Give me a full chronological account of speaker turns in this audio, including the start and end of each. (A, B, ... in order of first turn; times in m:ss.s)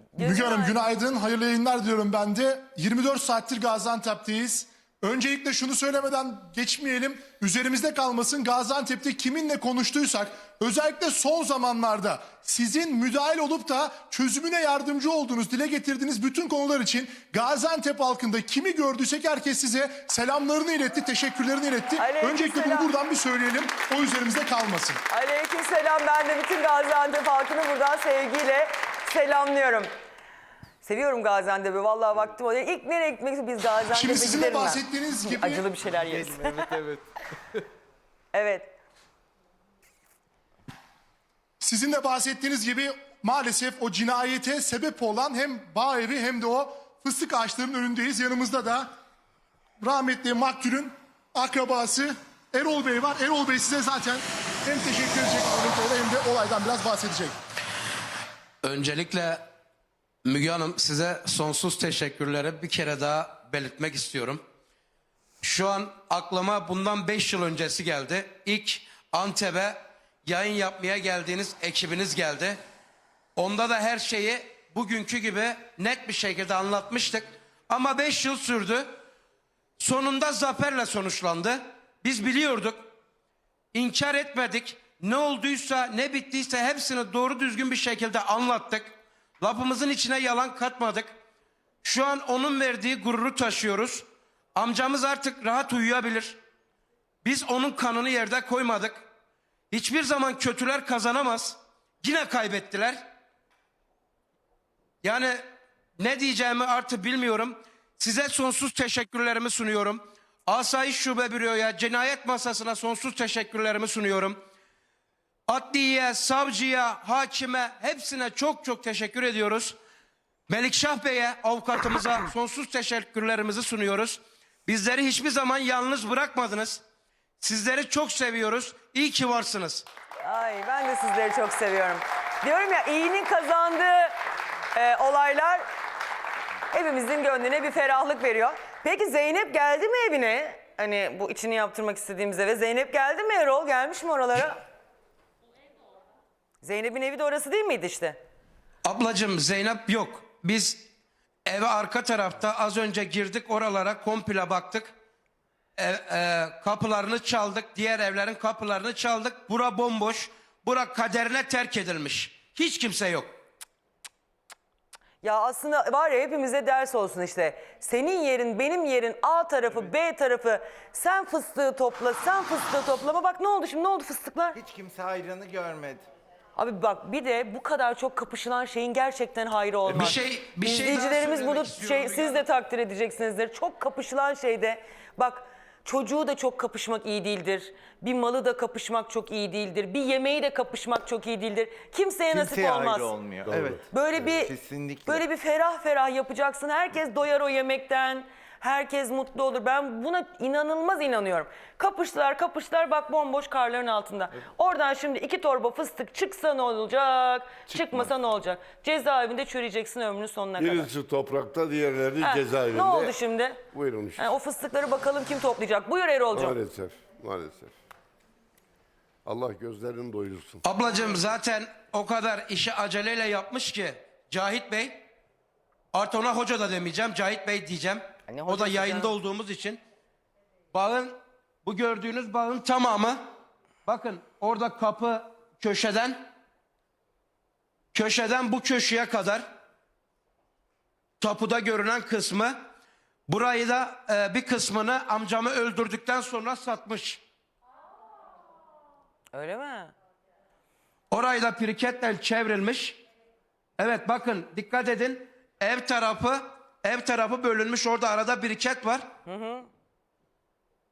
0:00.2-0:00.8 A
0:00.2-0:25.0 B
0:22.0-0:22.9 A
0:25.1-0:29.9 A
0:30.8-0:36.7 A
0:33.9-0:35.7 B
0:35.8-0:37.0 C
0:38.3-0:38.7 A
0:41.6-0:48.9 B
0:49.8-0:57.4 B
0:58.6-0:59.5 D
1:00.2-1:04.4 D
1:05.4-1:12.6 D
1:13.4-1:19.0 D
1:19.8-1:22.9 D
1:23.7-1:31.1 D
1:31.8-1:36.4 D
1:37.2-1:39.0 D
1:39.7-1:43.0 D
1:45.0-1:45.4 D
1:46.0-1:54.4 D
1:55.5-1:59.8 D
2:00.5-2:06.8 D
2:07.4-2:09.8 D
2:10.2-2:14.1 A
2:14.7-2:15.6 A
2:16.7-2:24.6 A
2:26.6-2:28.2 A
2:28.8-2:30.9 D
2:31.4-2:34.9 D
2:35.8-2:43.3 D
2:45.2-2:54.6 A
2:54.5-2:56.0 C
2:56.6-3:13.1 A
2:59.9-3:02.4 D
3:12.3-3:15.2 C
3:13.5-3:13.8 E
3:13.9-3:30.9 A
3:30.6-3:33.2 E
3:32.2-3:33.6 A
3:33.7-3:34.3 E
3:34.2-3:36.6 A
3:36.3-3:37.7 E
3:39.2-3:40.6 E
3:40.6-3:45.0 D
3:45.9-3:49.8 D
3:48.3-3:49.1 A
3:50.7-3:53.2 D
3:53.8-3:56.2 D
3:57.9-3:59.4 D
4:01.2-4:02.6 D
4:03.3-4:07.2 D
4:09.3-4:09.9 A
4:11.1-4:13.0 D
4:13.8-4:19.1 D
4:19.2-4:19.7 A